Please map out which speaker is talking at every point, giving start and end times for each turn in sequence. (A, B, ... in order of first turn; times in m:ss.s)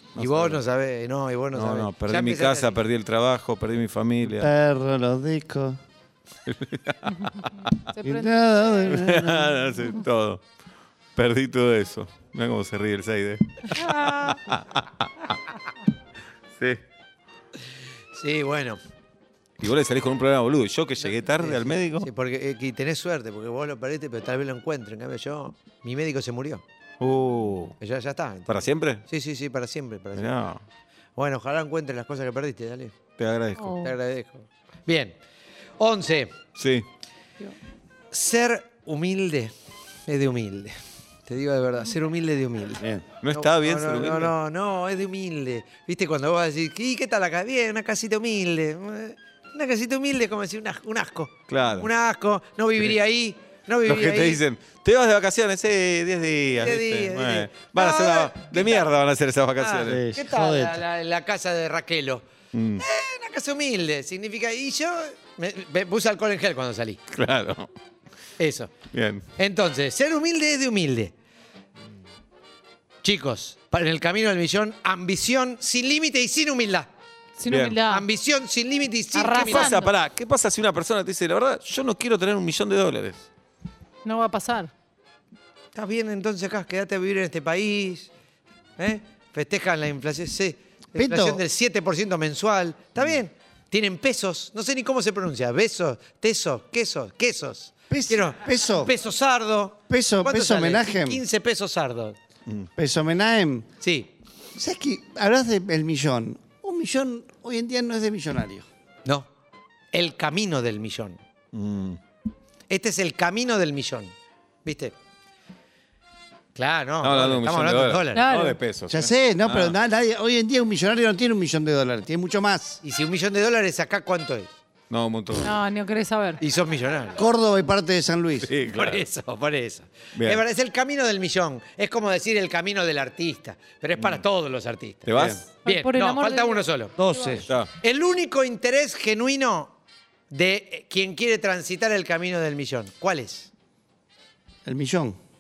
0:00.2-0:00.6 A
0:00.2-0:02.8 B
0:01.5-0:04.5 A
0:04.3-0:05.8 C
0:06.5-0:07.8 A
0:07.9-0:08.9 D
0:08.0-0:09.8 C
0:08.9-0:10.4 A
0:11.2-0:15.4 A
0:13.8-0:14.3 D
0:18.1-0:18.8 B
0:19.6-0:22.1 A
0:21.4-0:26.6 B
0:27.0-0:27.8 A
0:27.8-0:30.4 B
0:28.5-0:29.0 A
0:30.2-0:30.6 A
0:31.2-0:33.0 B
0:33.2-0:33.8 A
0:33.6-0:33.9 D
0:33.8-0:35.2 B
0:35.8-0:36.4 B
0:36.6-0:36.9 A
0:38.1-0:39.5 B
0:40.1-0:40.8 B
0:41.3-0:54.4 B
0:42.8-0:43.0 C
0:43.2-0:44.3 A
0:51.5-0:51.9 A
0:53.8-1:00.0 A
0:56.6-0:58.9 B
0:59.6-1:02.2 B
0:59.8-1:00.8 C
1:02.5-1:02.8 A
1:02.8-1:07.0 B
1:07.1-1:07.7 A
1:08.4-1:08.7 B
1:08.9-1:09.2 A
1:09.4-1:11.1 B
1:13.0-1:16.9 B
1:17.4-1:18.0 D
1:17.5-1:17.8 A
1:17.9-1:19.8 B
1:19.2-1:19.9 D
1:19.4-1:23.2 A
1:24.0-1:24.7 D
1:25.8-1:28.1 B
1:28.8-1:42.2 B
1:31.0-1:31.4 C
1:37.9-1:38.9 C
1:39.9-1:41.2 C
1:42.8-1:43.7 C
1:43.8-1:44.1 B
1:44.6-1:48.7 C
1:49.9-1:51.2 B
1:51.5-1:52.0 A
1:52.7-1:54.1 B
1:54.6-1:55.0 B
1:56.6-1:58.3 B
1:57.0-1:59.8 A
1:58.1-1:58.6 D
1:58.9-2:02.8 C
2:02.8-2:04.5 B
2:04.9-2:05.5 A
2:05.4-2:06.4 D
2:06.4-2:07.2 B
2:07.2-2:08.5 C
2:08.4-2:09.1 A
2:08.7-2:17.0 B
2:10.2-2:10.4 A
2:15.1-2:15.4 A
2:15.1-2:15.4 C
2:15.6-2:17.4 D
2:17.0-2:17.5 C
2:17.8-2:19.7 B
2:20.3-2:23.5 B
2:24.6-2:25.2 C